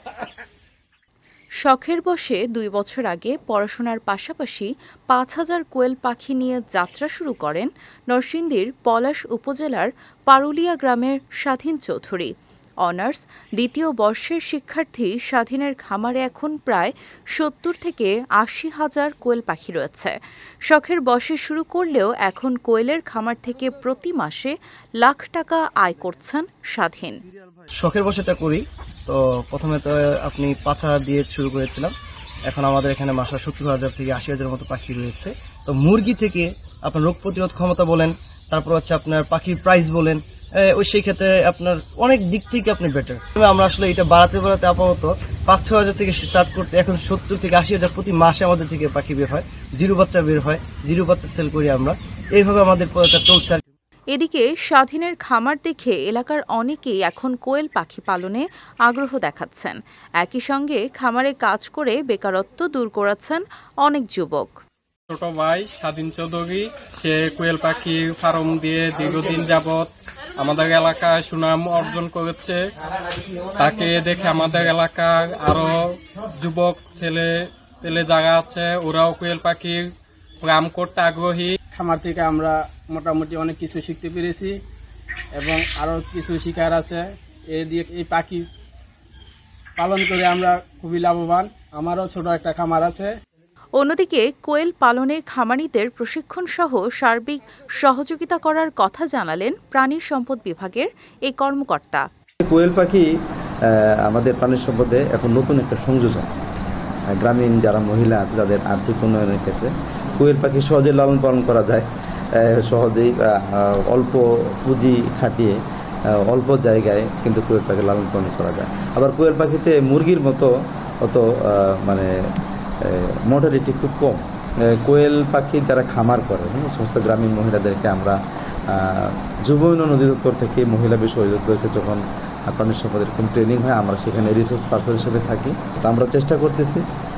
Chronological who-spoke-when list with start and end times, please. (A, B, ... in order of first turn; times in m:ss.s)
0:01.6-0:12.3 A
0:12.8-0:27.2 A
0:27.3-0:31.9 B
0:32.4-0:53.6 B
0:54.1-1:04.5 A
1:05.1-1:12.6 C
1:13.6-1:19.9 C
1:20.4-1:21.6 C
1:21.7-1:24.5 D
1:25.4-1:28.4 D
1:29.8-1:33.1 D
1:33.8-1:42.1 A
1:42.4-1:43.1 E
1:43.6-1:46.3 E
1:47.1-1:55.6 E
1:56.1-2:00.5 E
2:01.0-2:02.1 E
2:02.8-2:08.2 E
2:08.7-2:16.8 E